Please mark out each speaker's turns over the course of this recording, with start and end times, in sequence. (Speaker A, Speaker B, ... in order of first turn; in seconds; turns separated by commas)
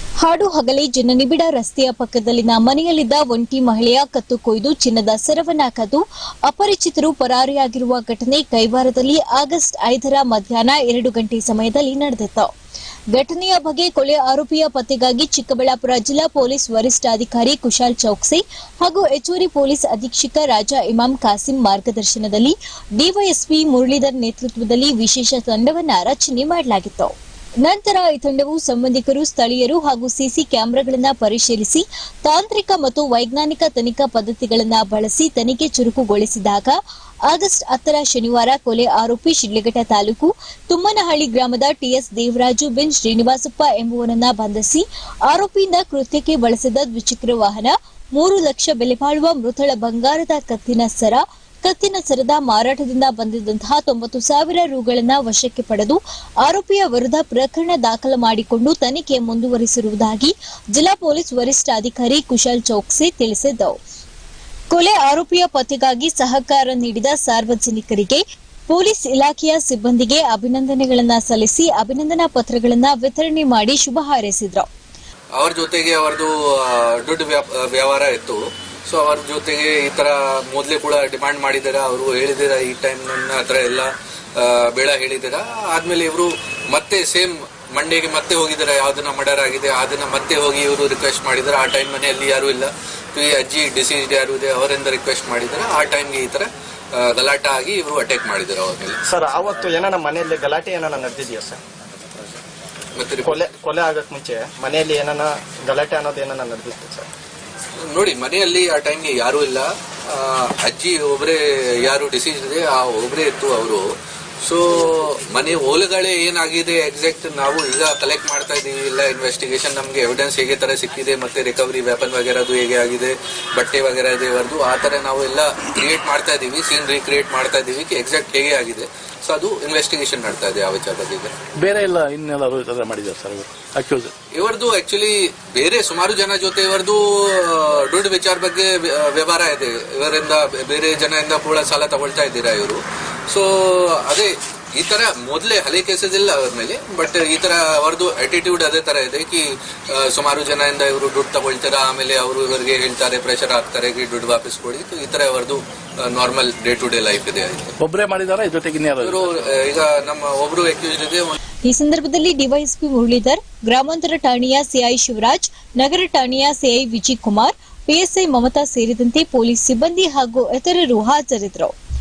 Speaker A: 0.2-12.5, Speaker A: 13.1-36.8, Speaker A: 37.3-63.8, Speaker A: 64.7-74.7, Speaker B: 75.4-99.0, Speaker C: 99.0-101.6, Speaker B: 103.0-103.5, Speaker C: 103.2-107.1, Speaker B: 107.8-113.9, Speaker B: 114.4-131.3, Speaker D: 131.6-134.1, Speaker B: 134.3-157.7, Speaker D: 157.8-159.4, Speaker B: 159.0-161.3, Speaker A: 161.7-171.7